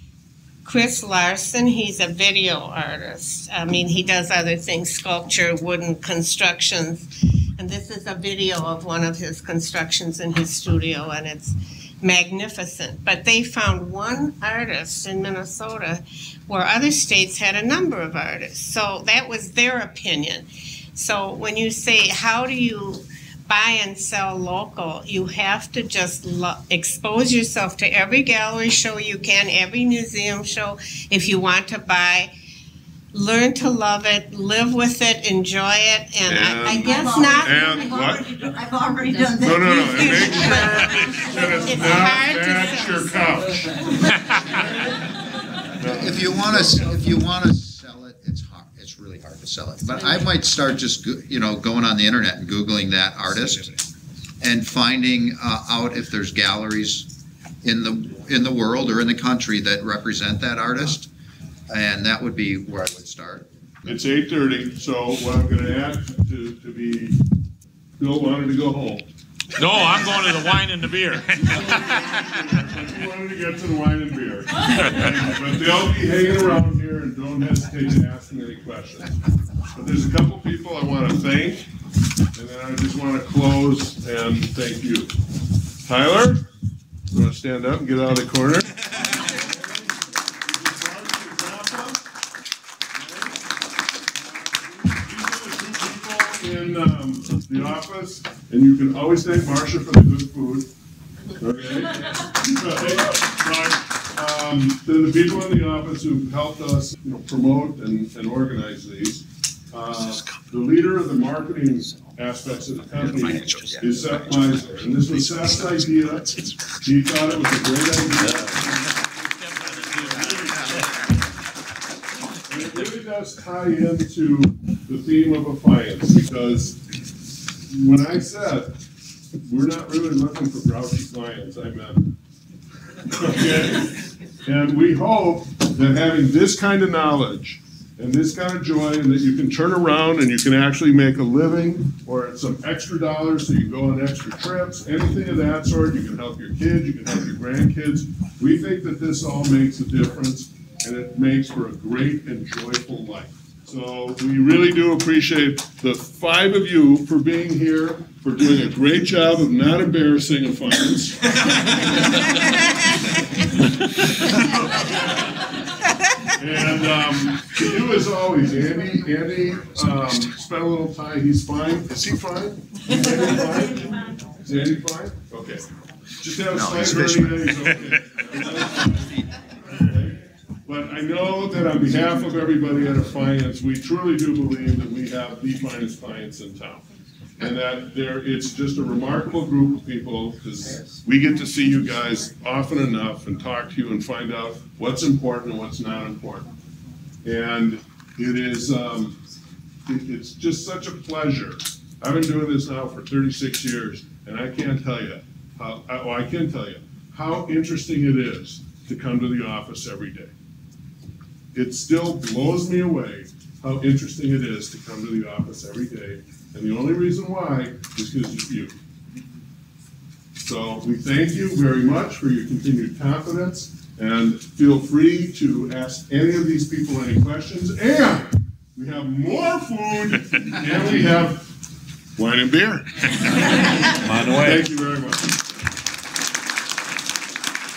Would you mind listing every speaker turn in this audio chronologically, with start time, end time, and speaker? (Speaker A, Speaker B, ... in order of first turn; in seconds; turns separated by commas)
Speaker A: 0.6-32.3, Speaker A: 33.1-37.8, Speaker B: 36.3-38.3, Speaker C: 36.7-41.6, Speaker B: 39.4-43.9, Speaker A: 39.5-40.9, Speaker A: 41.6-43.2, Speaker D: 44.1-44.5, Speaker B: 45.8-46.9, Speaker E: 45.8-53.8, Speaker E: 54.4-57.1, Speaker E: 57.6-61.1, Speaker E: 61.7-64.0, Speaker B: 63.9-67.2, Speaker B: 68.0-69.1, Speaker D: 69.6-72.5, Speaker B: 71.4-79.2, Speaker D: 74.8-75.1, Speaker B: 79.8-81.7, Speaker B: 82.3-85.1, Speaker B: 85.8-86.4, Speaker B: 87.1-92.0, Speaker B: 92.9-93.4, Speaker B: 94.0-100.7, Speaker B: 101.4-121.0, Speaker D: 119.3-121.0, Speaker B: 122.5-126.8, Speaker B: 127.7-128.8, Speaker B: 129.5-132.2, Speaker B: 133.1-162.2, Speaker B: 164.2-165.5, Speaker B: 166.4-175.7, Speaker B: 176.2-186.8, Speaker E: 176.5-177.7, Speaker B: 187.4-196.5, Speaker B: 197.2-199.2, Speaker B: 199.9-210.3, Speaker B: 211.5-218.8, Speaker B: 220.4-231.5, Speaker B: 232.2-232.9, Speaker D: 234.0-234.7, Speaker B: 234.3-235.5